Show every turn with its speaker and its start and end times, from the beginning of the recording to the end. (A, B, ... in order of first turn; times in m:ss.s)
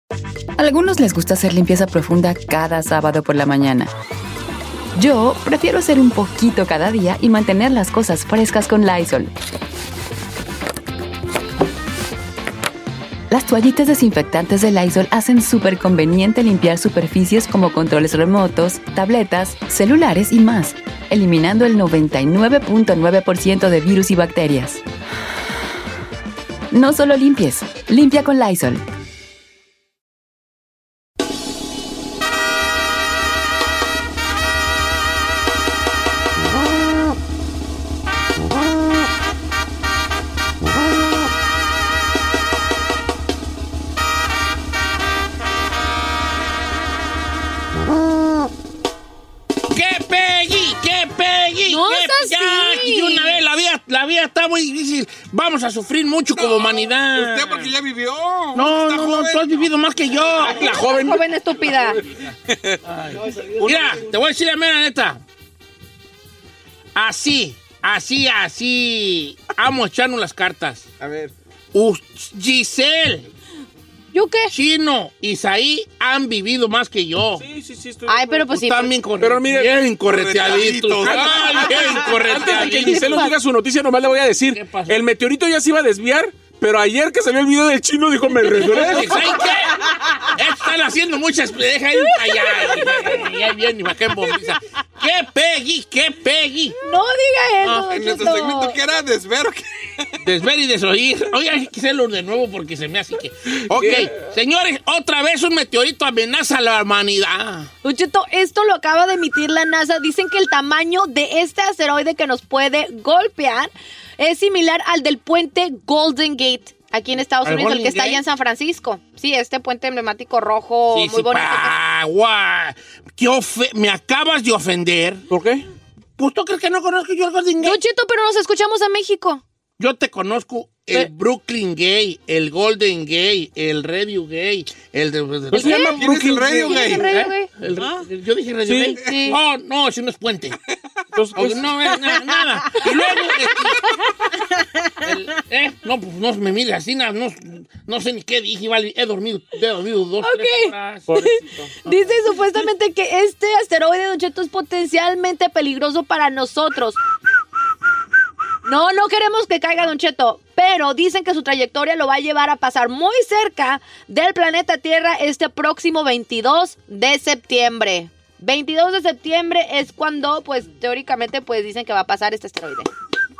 0:00.6-0:03.9 A
0:04.9-0:09.3 A
0:13.3-0:24.8 A
0:26.7-0:28.8 A
0:49.7-0:57.7 B
0:51.7-0:53.4 C
0:56.4-0:59.7 D
0:58.5-1:01.0 B
1:00.5-1:02.0 C
1:00.7-1:01.2 E
1:02.5-1:02.8 D
1:02.8-1:05.2 B
1:06.9-1:10.9 B
1:11.0-1:11.3 D
1:11.7-1:13.3 B
1:14.1-1:14.5 C
1:14.5-1:17.4 B
1:17.4-1:18.4 E
1:18.1-1:18.9 C
1:18.5-1:23.3 B
1:19.2-1:19.7 E
1:20.0-1:22.2 D
1:21.0-1:29.3 E
1:22.8-1:23.3 C
1:24.5-1:25.0 B
1:28.6-1:36.8 B
1:36.8-1:38.8 C
1:37.9-1:40.1 D
1:40.2-1:47.7 B
1:43.7-1:44.2 E
1:47.8-2:01.8 C
1:57.4-1:58.2 B
2:00.9-2:05.2 B
2:05.3-2:05.6 E
2:06.2-2:07.8 B
2:07.6-2:09.4 C
2:09.8-2:16.0 B
2:15.5-2:17.0 E
2:15.5-2:16.0 C
2:16.0-2:17.0 D
2:16.6-2:17.5 C
2:16.9-2:20.6 B
2:18.6-2:19.4 E
2:19.0-2:19.4 C
2:21.1-2:21.8 E
2:21.4-2:24.0 B
2:25.0-2:31.1 B
2:30.2-2:31.3 C
2:31.1-2:31.7 E
2:31.8-2:37.0 C
2:38.6-2:52.9 C